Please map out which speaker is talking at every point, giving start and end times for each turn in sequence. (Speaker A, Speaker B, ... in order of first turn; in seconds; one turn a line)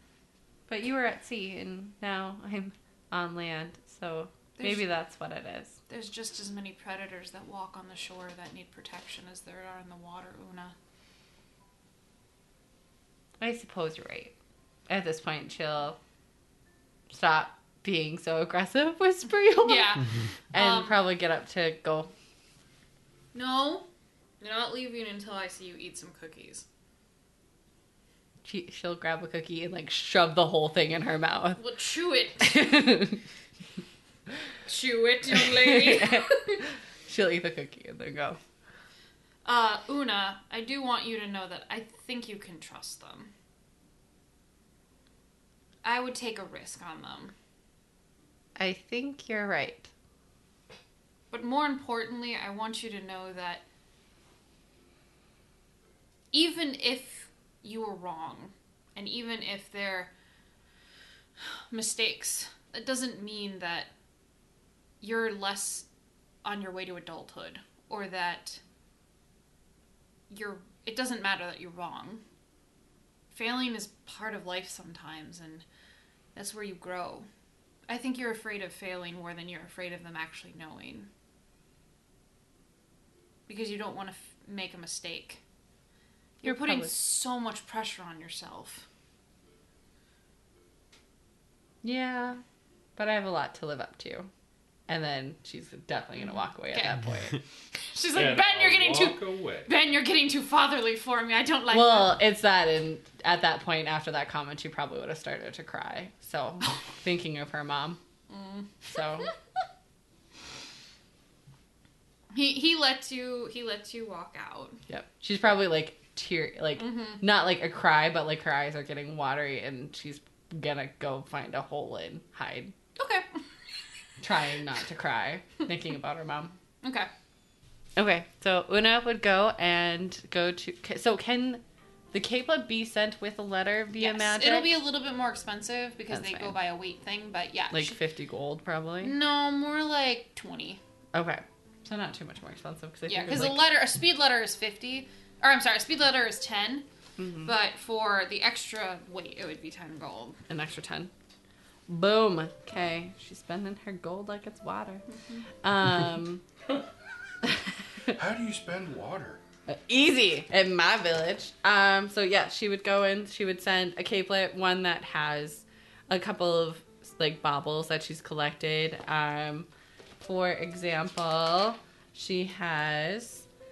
Speaker A: 0.7-5.8
Speaker B: 4.5-4.9
Speaker B: 5.9-10.7
Speaker A: 13.4-14.3
Speaker A: 14.9-16.0
Speaker A: 17.1-20.0
Speaker B: 19.6-21.0
Speaker A: 20.5-22.1
Speaker B: 23.3-23.9
Speaker B: 24.4-26.6
Speaker A: 28.4-31.6
Speaker B: 31.6-32.8
Speaker A: 32.4-33.2
Speaker B: 34.6-36.6
Speaker A: 35.4-38.4
Speaker B: 39.4-43.3
Speaker B: 45.8-47.3
Speaker A: 48.6-49.9
Speaker B: 51.3-53.6
Speaker B: 56.3-60.1
Speaker B: 61.7-63.9
Speaker B: 65.0-65.9
Speaker B: 66.4-68.6
Speaker B: 70.3-72.2
Speaker B: 73.3-75.6
Speaker B: 76.3-77.3
Speaker B: 77.9-81.1
Speaker B: 83.5-85.4
Speaker A: 86.4-87.0
Speaker B: 86.4-88.9
Speaker A: 91.8-92.4
Speaker A: 93.0-94.3
Speaker A: 94.9-97.4
Speaker B: 96.2-102.2
Speaker C: 98.1-99.7
Speaker A: 101.7-108.0
Speaker B: 108.3-108.9
Speaker A: 108.9-109.3
Speaker B: 112.3-114.8
Speaker A: 114.9-122.7
Speaker B: 116.8-117.2
Speaker B: 123.0-123.3
Speaker A: 124.2-126.5
Speaker B: 126.8-127.1
Speaker A: 128.0-134.8
Speaker B: 134.0-138.0
Speaker A: 136.1-136.6
Speaker A: 137.7-139.2
Speaker B: 139.0-140.8
Speaker A: 141.1-143.7
Speaker B: 143.1-146.8
Speaker A: 147.2-147.5
Speaker B: 147.4-150.4
Speaker A: 150.5-151.1
Speaker A: 151.9-155.0
Speaker A: 155.6-156.4
Speaker A: 157.4-158.1
Speaker C: 158.1-159.4
Speaker A: 159.7-169.7
Speaker A: 170.2-173.4